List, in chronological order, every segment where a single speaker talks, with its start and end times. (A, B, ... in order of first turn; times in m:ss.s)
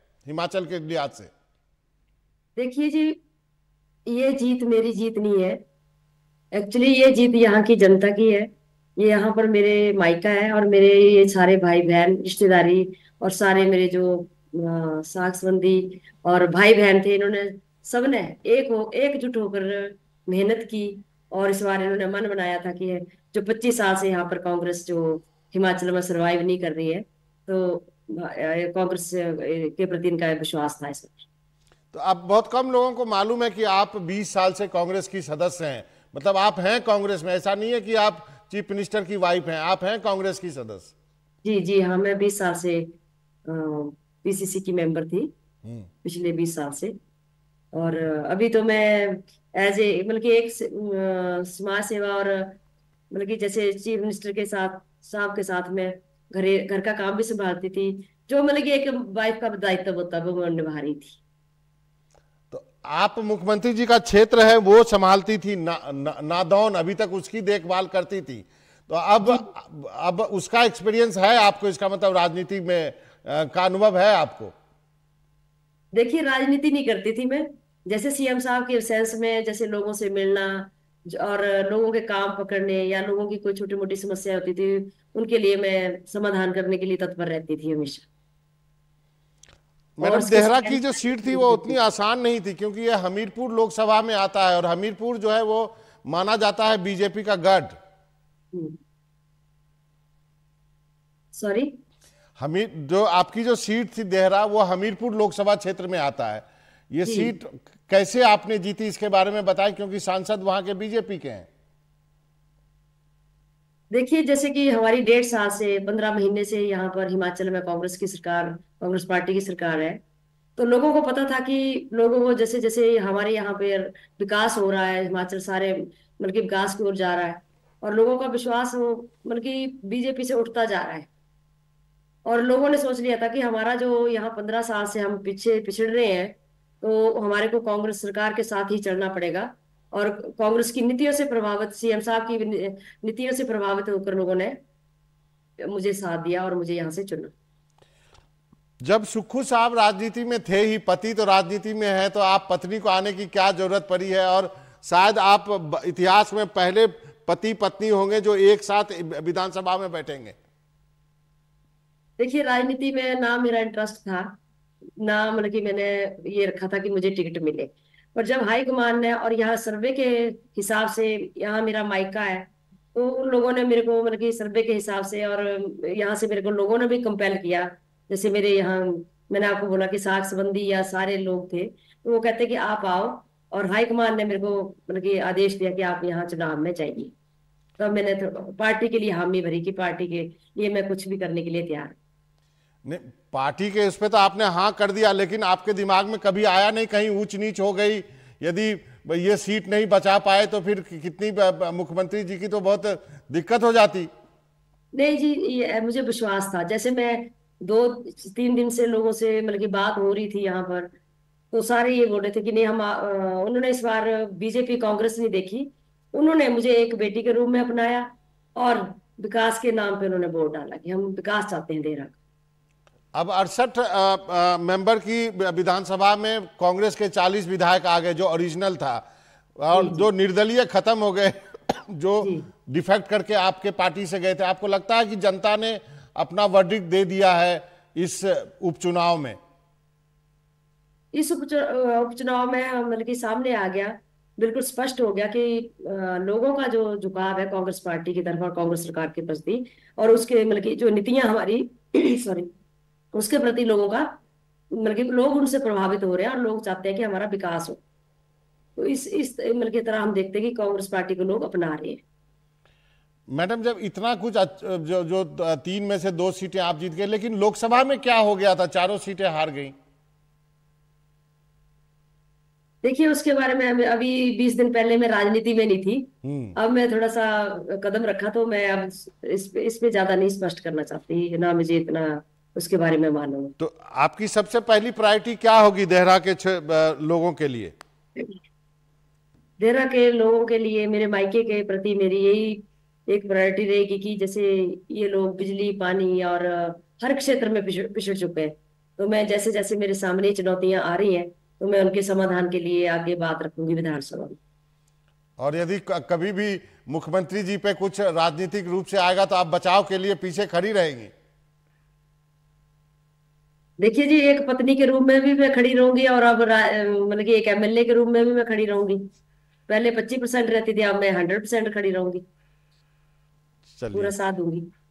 0:00.2-0:01.3 A
0:02.6-0:03.2 B
0:04.1-0:05.6 B
0:06.5-0:31.2 B
0:31.9-0:40.9 A
0:41.4-0:42.9 B
0:43.4-0:45.3 B
0:46.0-0:47.0 B
0:47.7-0:52.6 B
0:53.1-1:01.2 B
1:02.5-1:14.5 A
1:15.9-1:28.0 B
1:30.0-1:37.8 A
1:30.0-1:31.8 B
1:38.5-1:38.8 B
1:41.3-1:41.7 B
1:42.4-1:51.5 A
1:47.0-1:47.3 B
1:53.9-2:00.0 B
2:00.6-2:11.1 B
2:12.2-2:24.6 B
2:25.6-2:27.3 B
2:28.8-2:40.4 A
2:42.2-2:44.3 B
2:45.0-3:07.1 B
3:07.8-3:12.0 B
3:12.8-3:24.1 A
3:24.9-3:30.9 B
3:31.5-3:42.1 B
3:43.1-3:49.0 A
3:49.6-3:59.4 A
3:49.7-3:50.0 B
3:52.2-3:52.5 B
4:01.1-4:12.5 B
4:13.1-4:14.2 B
4:14.7-4:17.8 B
4:18.8-4:22.0 B
4:23.3-4:29.7 A
4:32.8-4:43.5 B
4:36.2-4:36.6 A
4:43.6-4:47.7 A
4:49.6-5:04.4 B
5:05.4-5:11.1 A
5:13.8-5:19.0 B
5:19.7-5:22.2 B
5:23.7-5:24.1 A
5:23.9-5:24.7 B